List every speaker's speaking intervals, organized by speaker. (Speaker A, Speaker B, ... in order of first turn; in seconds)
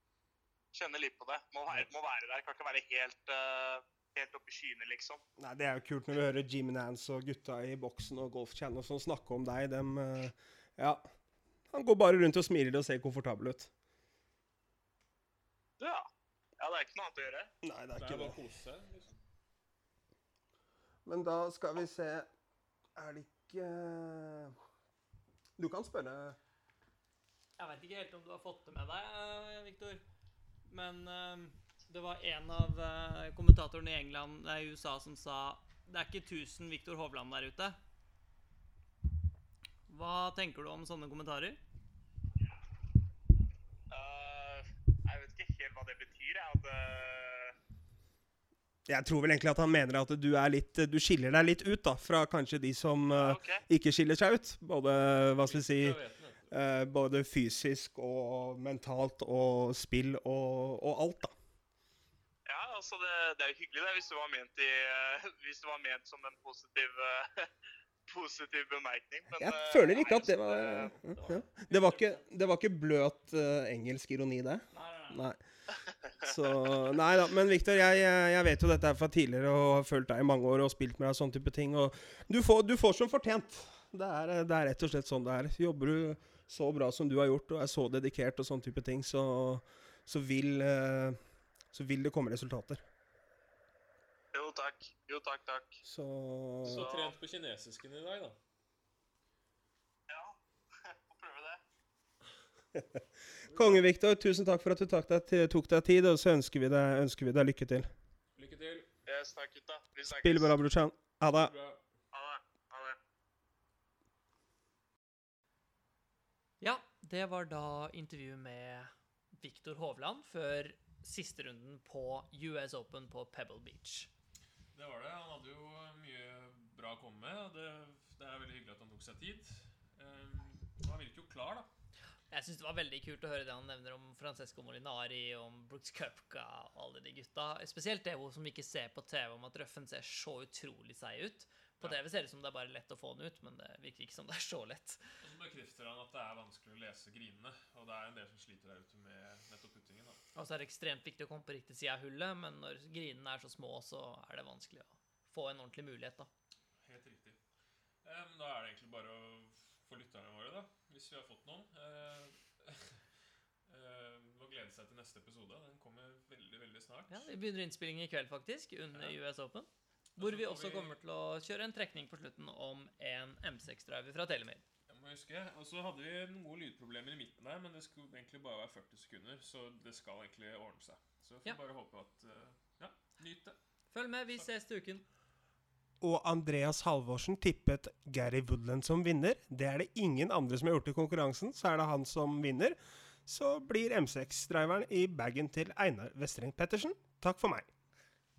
Speaker A: 0.7-5.2, 15.8-16.1, 16.6-17.5, 43.9-47.5, 53.1-53.6, 62.5-67.5, 68.1-71.0, 94.3-95.8, 96.7-97.1, 100.1-101.6, 109.1-110.6, 112.1-113.0
Speaker B: 5.4-11.1, 11.7-13.7, 17.6-18.4, 21.1-22.3, 23.0-24.6, 25.6-26.4, 48.9-56.0, 56.5-61.3, 69.4-75.4, 76.2-91.2, 91.7-92.8, 95.8-96.9, 102.7-107.9, 110.1-111.5, 186.0-197.7
Speaker C: 18.0-19.2, 55.4-56.6, 96.6-98.4, 103.5-103.8, 108.4-108.9, 111.3-111.8, 124.7-131.7, 145.2-150.2, 156.8-157.4, 158.0-162.9, 163.7-167.3, 168.9-169.2, 170.2-171.0, 174.9-183.6
Speaker D: 27.6-30.0, 30.7-37.8, 39.9-41.6, 71.1-72.2, 74.7-75.3, 116.6-124.1, 132.3-145.0, 150.3-156.3, 167.1-174.7, 183.9-185.0